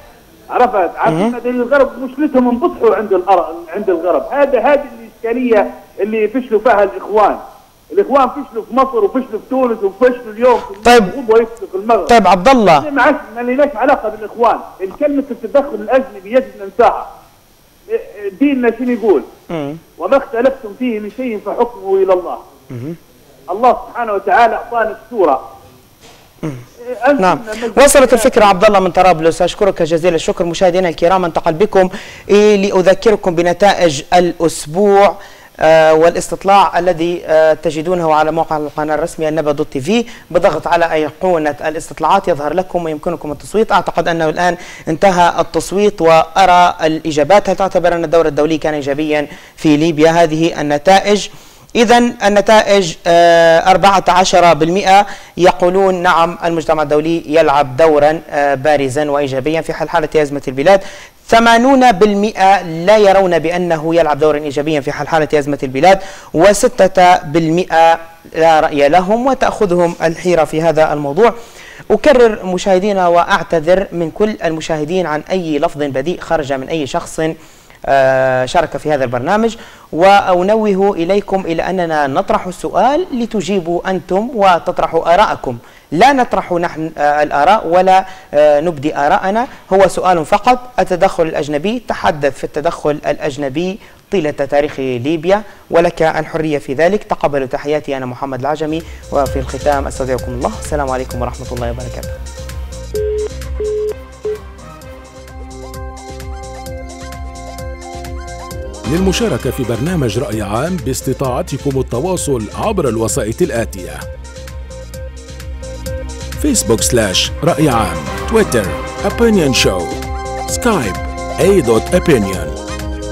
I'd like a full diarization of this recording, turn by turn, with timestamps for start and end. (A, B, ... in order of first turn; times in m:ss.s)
0:00.5-0:12.1 A
0:01.1-0:01.3 B
0:10.8-0:11.1 B
0:12.1-0:12.9 B
0:12.8-0:17.1 A
0:17.9-0:19.3 A
0:19.5-0:19.8 B
0:20.0-0:22.4 A
0:22.7-0:23.0 B
0:23.5-0:25.4 A
0:26.9-0:28.5 A
0:27.2-1:11.3 B
1:11.9-1:17.3 B
1:17.9-1:42.1 B
1:48.8-1:54.0 C
1:56.4-2:02.5 C